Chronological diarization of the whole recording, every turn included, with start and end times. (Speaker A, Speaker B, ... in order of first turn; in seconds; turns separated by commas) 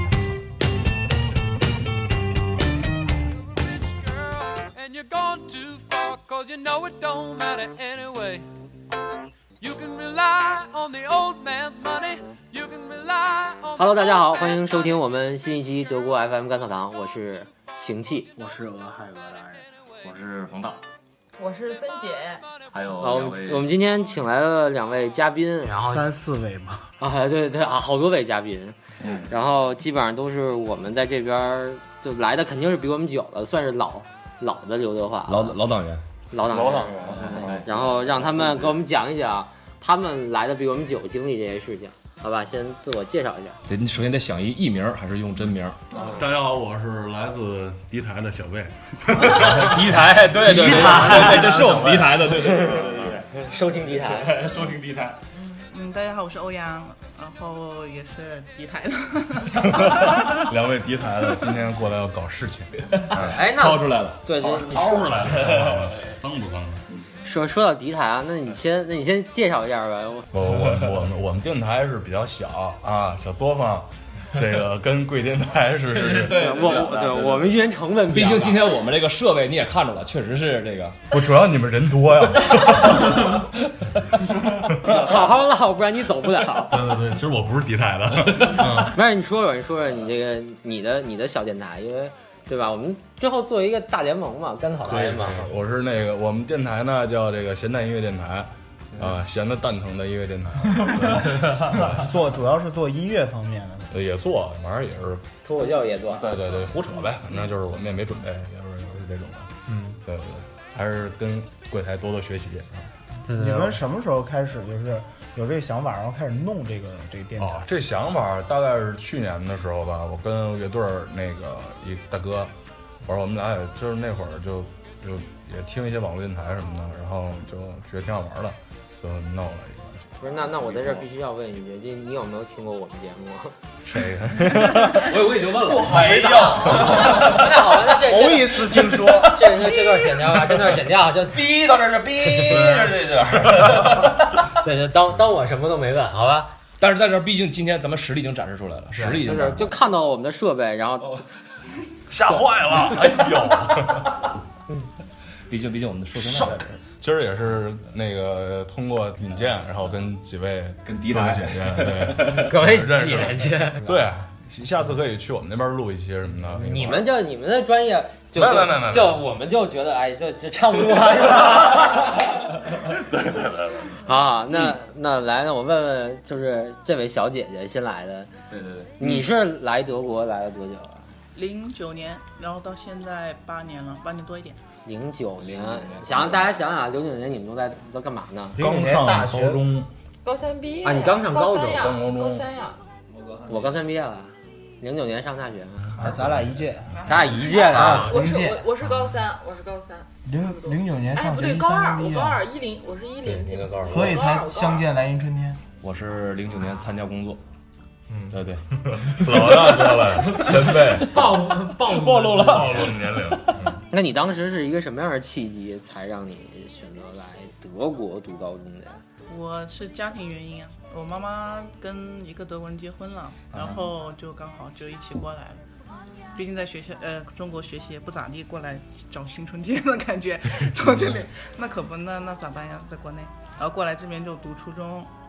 Speaker A: 3.6-8.5, Speaker A: 9.6-14.3, Speaker B: 13.8-18.3, Speaker C: 18.4-19.6, Speaker D: 20.0-20.8, Speaker E: 21.4-22.4, Speaker D: 22.7-23.7, Speaker B: 23.0-26.1, Speaker C: 25.8-26.9, Speaker B: 27.0-35.5, Speaker D: 29.0-29.3, Speaker F: 35.3-36.0, Speaker B: 36.3-43.6, Speaker D: 36.4-38.8, Speaker F: 43.7-45.8, Speaker G: 46.0-53.2, Speaker F: 49.2-53.1, Speaker B: 50.5-51.5, Speaker B: 52.4-52.8, Speaker B: 53.4-54.3, Speaker G: 54.4-55.1, Speaker E: 55.3-55.6, Speaker H: 55.7-60.5, Speaker G: 59.6-63.4, Speaker F: 62.8-64.2, Speaker B: 63.2-65.3, Speaker G: 64.3-66.8, Speaker B: 67.2-70.3, Speaker G: 70.3-76.4, Speaker F: 76.1-77.1, Speaker B: 76.2-78.7, Speaker D: 76.9-77.3, Speaker F: 78.1-81.0, Speaker G: 81.1-83.4, Speaker G: 84.7-85.1, Speaker B: 84.7-87.0, Speaker G: 86.7-89.0, Speaker B: 88.8-95.5, Speaker G: 94.8-102.1, Speaker C: 101.7-103.9, Speaker G: 103.9-105.2, Speaker B: 105.4-106.5, Speaker G: 106.1-109.5, Speaker G: 110.0-112.7, Speaker B: 113.2-113.8, Speaker C: 113.3-117.7, Speaker G: 117.4-122.5, Speaker G: 123.0-130.9, Speaker B: 130.2-133.5, Speaker G: 133.8-135.1, Speaker F: 134.9-137.8, Speaker C: 135.9-136.7, Speaker B: 136.6-141.5, Speaker C: 138.0-139.4, Speaker F: 138.6-140.2, Speaker F: 141.3-144.1, Speaker B: 142.3-142.7, Speaker G: 142.5-144.1, Speaker B: 144.5-146.5, Speaker F: 146.8-149.7, Speaker B: 148.9-151.2, Speaker G: 152.1-154.2, Speaker F: 155.5-156.6, Speaker G: 156.2-167.1, Speaker F: 160.8-162.5, Speaker B: 162.3-163.9, Speaker B: 166.5-172.1, Speaker G: 168.3-169.2, Speaker G: 173.3-173.7, Speaker B: 174.0-178.3, Speaker D: 178.5-178.9, Speaker B: 179.0-181.0, Speaker H: 181.3-184.6, Speaker B: 184.8-188.6, Speaker D: 185.9-186.4, Speaker G: 188.5-189.9, Speaker C: 188.6-189.6, Speaker E: 190.2-192.8, Speaker B: 190.8-191.9, Speaker G: 191.7-192.5, Speaker F: 193.2-193.4, Speaker B: 193.5-196.2, Speaker C: 196.0-197.0, Speaker G: 196.1-196.6, Speaker B: 197.1-198.1, Speaker E: 197.3-204.8, Speaker C: 197.7-198.6, Speaker G: 197.8-198.1, Speaker C: 200.2-202.4, Speaker B: 203.2-204.0, Speaker C: 203.8-205.6, Speaker F: 205.8-207.4, Speaker G: 208.2-211.2, Speaker F: 208.3-213.0, Speaker B: 211.1-212.9, Speaker G: 212.4-213.8, Speaker B: 213.9-219.0, Speaker H: 219.3-225.6, Speaker E: 225.9-226.4, Speaker H: 226.3-235.1